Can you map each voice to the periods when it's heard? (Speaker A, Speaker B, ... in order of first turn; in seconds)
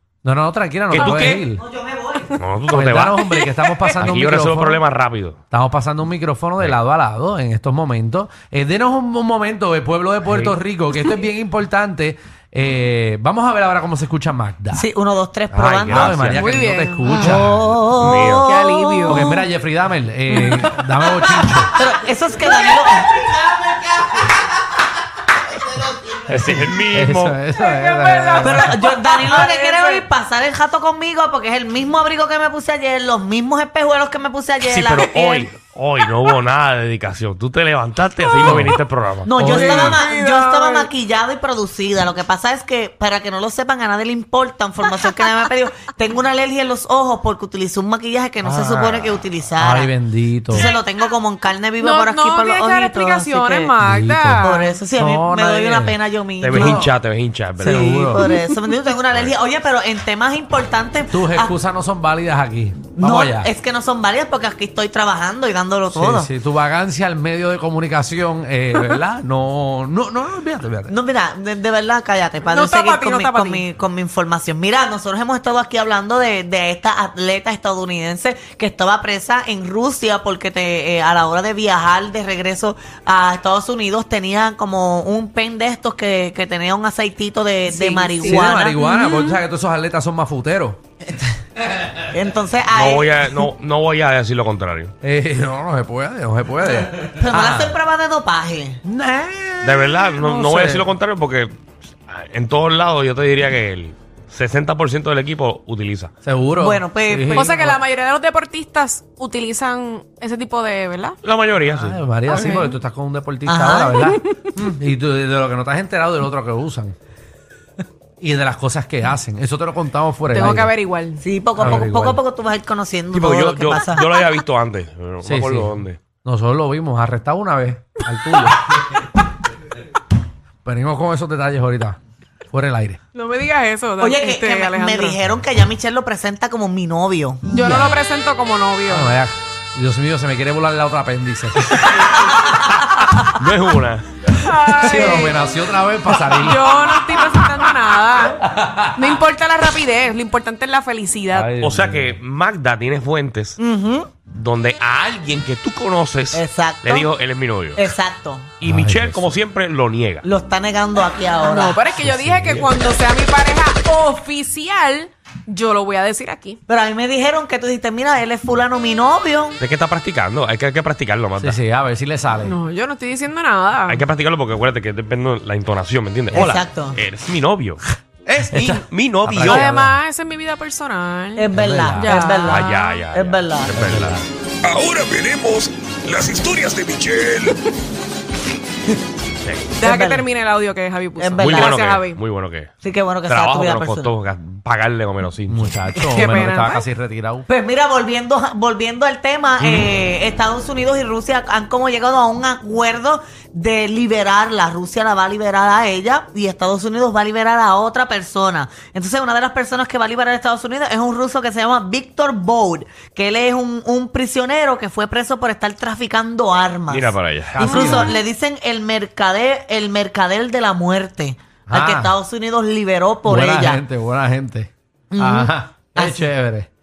Speaker A: 0.2-1.6, 2.7-4.8, 5.5-14.8, 15.5-17.8, 19.0-21.8, 26.3-28.9, 38.4-38.8, 39.4-40.0, 48.4-50.7, 53.8-56.0, 56.5-56.9, 57.6-58.3, 61.1-63.5, 65.9-70.9, 88.2-90.8, 95.0-97.8, 98.8-100.9, 106.2-107.8, 111.7-116.9, 118.2-120.7, 121.6-122.2, 125.2-128.8, 130.6-132.0, 132.5-133.0, 137.6-138.0, 138.9-141.9, 144.8-146.8, 148.4-148.9, 151.3-152.2, 158.6-159.3, 162.0-162.7, 171.4-172.6, 178.5-179.9, 181.5-182.2, 183.7-184.2, 195.5-197.5, 217.5-218.1, 221.7-222.1, 223.2-226.7
Speaker B: 0.9-1.5, 2.4-3.4, 4.0-5.4, 10.2-10.6, 15.9-16.5, 18.0-18.5, 26.2-27.4, 34.7-39.8, 56.4-58.0, 92.7-94.9, 99.6-101.6, 102.1-106.1, 111.2-112.0, 123.1-126.0, 143.2-144.3, 151.6-153.6, 154.3-157.9, 158.6-160.3, 169.6-171.6, 173.9-179.7, 182.5-184.2, 189.4-189.8, 191.4-192.7, 193.2-196.1, 199.6-199.8, 216.9-218.0
Speaker C: 1.0-2.4, 14.7-16.4, 17.1-19.5, 21.1-23.3, 28.4-35.5, 39.2-49.9, 50.5-53.8, 54.4-56.9, 57.6-61.6, 63.0-66.3, 70.9-88.8, 92.1-93.3, 97.2-98.8, 106.6-107.5, 113.5-114.0, 121.2-124.0, 134.0-137.4, 153.6-154.1, 156.3-157.1, 157.8-158.5, 160.2-161.8, 166.7-169.6, 176.3-177.0, 181.4-183.9, 189.8-190.3, 191.2-191.8, 192.8-194.1, 197.5-223.8, 225.1-226.3
Speaker D: 16.3-17.4, 18.4-19.3, 20.3-20.7, 27.6-30.1, 39.5-40.9, 51.8-54.8, 72.5-73.6, 87.7-89.4, 107.3-111.2, 112.3-112.8, 114.2-114.5, 120.3-121.2, 133.1-135.2, 137.5-139.2, 144.3-145.4, 146.2-148.4, 148.9-151.5, 161.4-166.6, 172.4-174.1, 179.4-182.9, 189.8-192.2, 196.0-196.9
Speaker E: 184.6-187.6